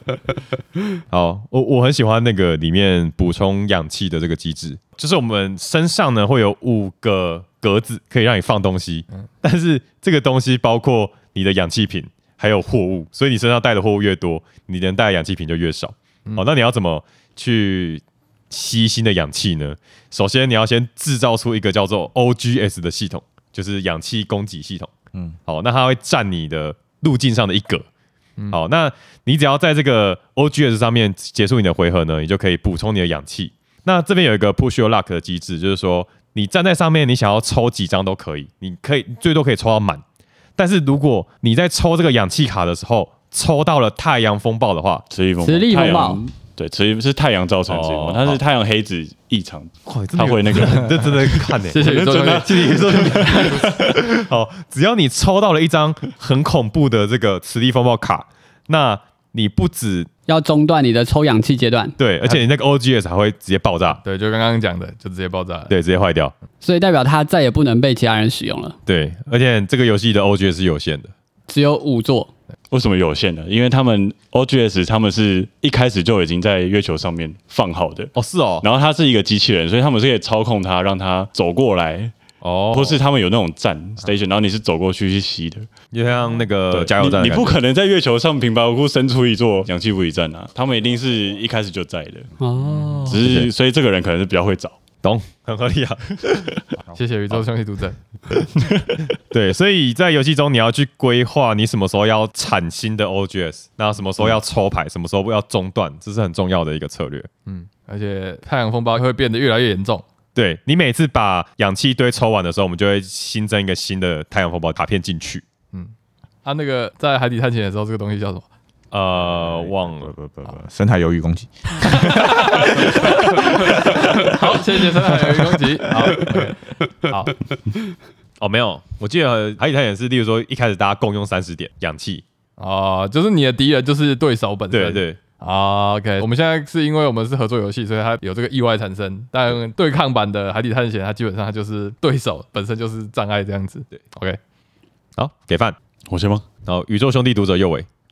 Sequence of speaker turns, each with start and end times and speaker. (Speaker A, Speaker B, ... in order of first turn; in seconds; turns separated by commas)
Speaker A: 1.1-24.9, Speaker A: 25.5-27.9, Speaker A: 28.5-40.0, Speaker A: 40.6-45.0, Speaker B: 45.1-53.8, Speaker C: 45.4-46.2, Speaker A: 45.7-46.1, Speaker A: 47.7-48.4, Speaker A: 49.8-60.1, Speaker D: 51.6-52.5, Speaker C: 60.3-62.0, Speaker A: 62.0-64.0, Speaker D: 64.0-65.7, Speaker A: 65.7-66.3, Speaker C: 66.6-68.8, Speaker A: 68.8-71.1, Speaker C: 71.5-72.3, Speaker B: 72.7-82.1, Speaker A: 78.1-78.7, Speaker A: 82.4-83.0, Speaker B: 82.7-85.7, Speaker A: 85.9-87.5, Speaker B: 86.7-92.3, Speaker C: 92.4-93.2, Speaker A: 92.6-93.5, Speaker B: 93.0-94.8, Speaker A: 95.0-96.6, Speaker D: 96.9-98.0, Speaker A: 99.0-107.3, Speaker D: 107.5-110.0, Speaker A: 110.3-115.4, Speaker D: 116.4-118.4, Speaker A: 118.9-120.1, Speaker E: 119.1-122.6, Speaker D: 122.0-127.5, Speaker A: 128.4-132.2, Speaker D: 132.6-144.4, Speaker A: 134.7-135.2, Speaker A: 145.2-145.8, Speaker B: 146.1-146.4, Speaker A: 146.7-147.9